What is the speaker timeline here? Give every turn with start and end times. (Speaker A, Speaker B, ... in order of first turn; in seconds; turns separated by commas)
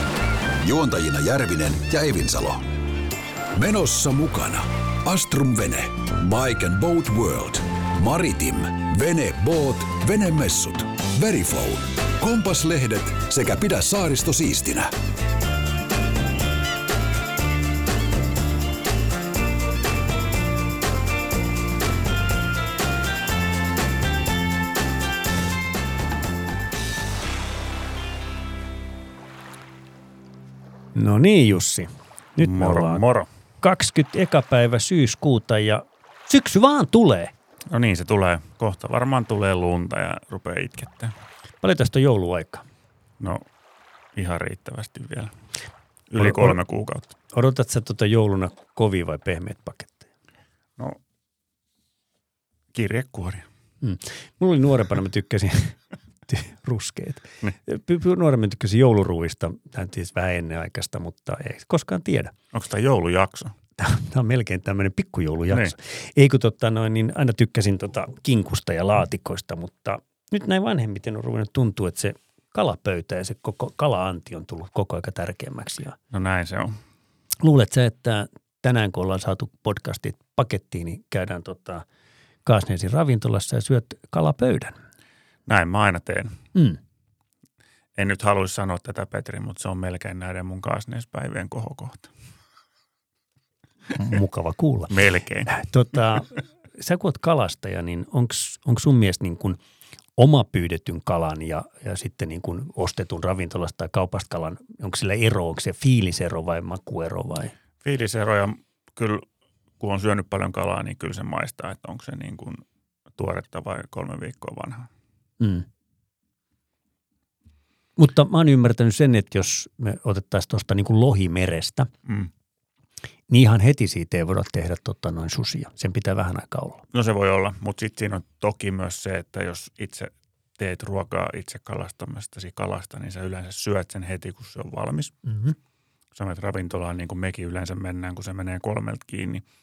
Speaker A: 0.6-2.6, Speaker A: 3.5-14.9, Speaker B: 30.9-33.0, Speaker C: 32.4-33.3, Speaker B: 33.6-37.3, Speaker C: 37.7-41.1, Speaker B: 41.6-42.6, Speaker C: 44.1-45.3, Speaker C: 46.1-47.1, Speaker B: 46.2-46.6, Speaker B: 47.3-50.1, Speaker C: 52.7-53.5, Speaker B: 53.8-62.3, Speaker C: 62.5-63.5, Speaker B: 63.8-76.0, Speaker C: 76.1-76.8, Speaker B: 77.4-81.8, Speaker B: 82.4-84.8, Speaker C: 85.5-86.4, Speaker C: 88.0-92.1, Speaker B: 93.9-99.6, Speaker C: 94.9-95.5, Speaker B: 100.2-107.5, Speaker C: 107.8-109.2, Speaker C: 109.8-112.6, Speaker C: 113.2-114.9, Speaker B: 115.4-115.7, Speaker B: 118.0-121.9, Speaker B: 123.3-126.8, Speaker C: 126.9-135.2, Speaker C: 136.1-139.4